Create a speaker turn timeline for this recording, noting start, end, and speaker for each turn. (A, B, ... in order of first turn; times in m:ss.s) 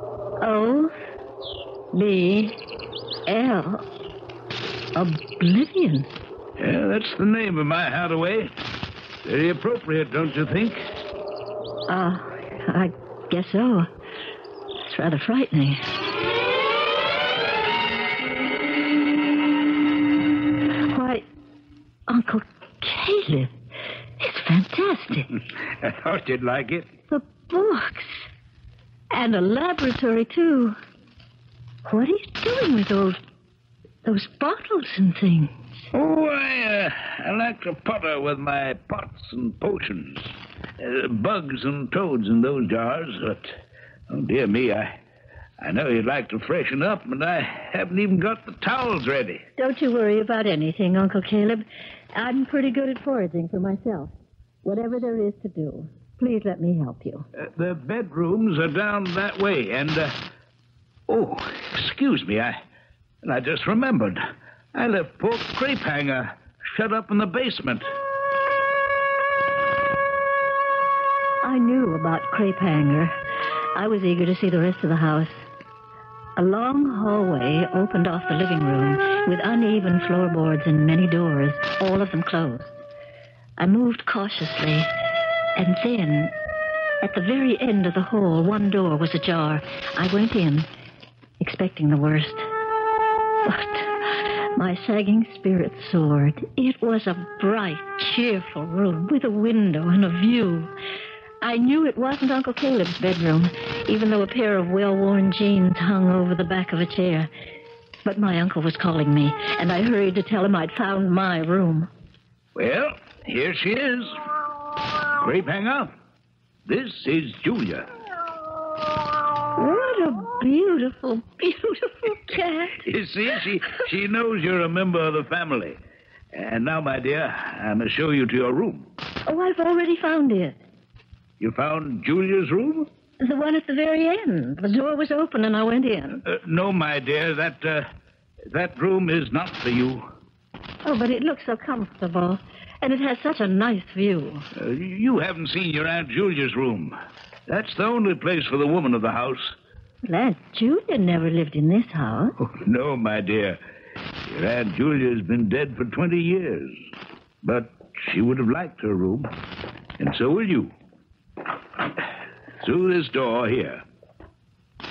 0:00.4-0:00.9 A
0:01.9-0:02.6 A
0:03.3-0:03.8 A
0:04.9-0:06.1 A
0:06.6-0:08.5 B
0:09.2-0:10.8 B
0:11.9-0:13.9 A
0:14.8-0:15.8 A
0:20.9-0:21.2 A
0:22.1-0:23.5 A
0:24.2-0:25.3 A
0:25.8-0:26.9 B
0:27.1-0:28.3 A
0:29.1-0:30.8 A
0:31.8-0:33.2 A
0:34.0-0:35.7 A
0:35.9-0:43.6 B
0:44.1-0:45.0 B
0:45.6-0:49.4 B
0:49.6-0:54.1 A
0:54.6-0:57.3 A
0:57.4-1:00.2 B
1:01.1-1:02.6 B
1:03.2-1:04.2 B
1:04.7-1:07.8 B
1:11.4-1:13.2 A
1:13.7-1:15.4 A
1:16.4-1:22.8 A
1:23.6-1:24.9 A
1:25.6-1:26.3 A
1:27.0-1:30.7 A
1:31.4-1:32.5 A
1:33.5-1:40.7 A
1:41.4-1:47.3 A
1:48.0-1:51.9 A
1:52.6-1:54.2 B
1:55.2-1:55.9 B
1:56.7-1:57.9 B
1:59.6-2:02.8 A
2:02.8-2:05.8 B
2:06.3-2:08.9 B
2:09.3-2:10.6 A
2:11.4-2:12.9 B
2:13.2-2:16.2 A
2:16.3-2:17.9 B
2:18.5-2:20.1 B
2:20.8-2:24.5 A
2:24.6-2:27.0 B
2:27.5-2:29.5 B
2:30.0-2:32.4 A
2:32.6-2:33.6 B
2:34.3-2:36.8 B
2:37.4-2:39.3 B
2:40.0-2:40.7 B
2:42.6-2:43.8 B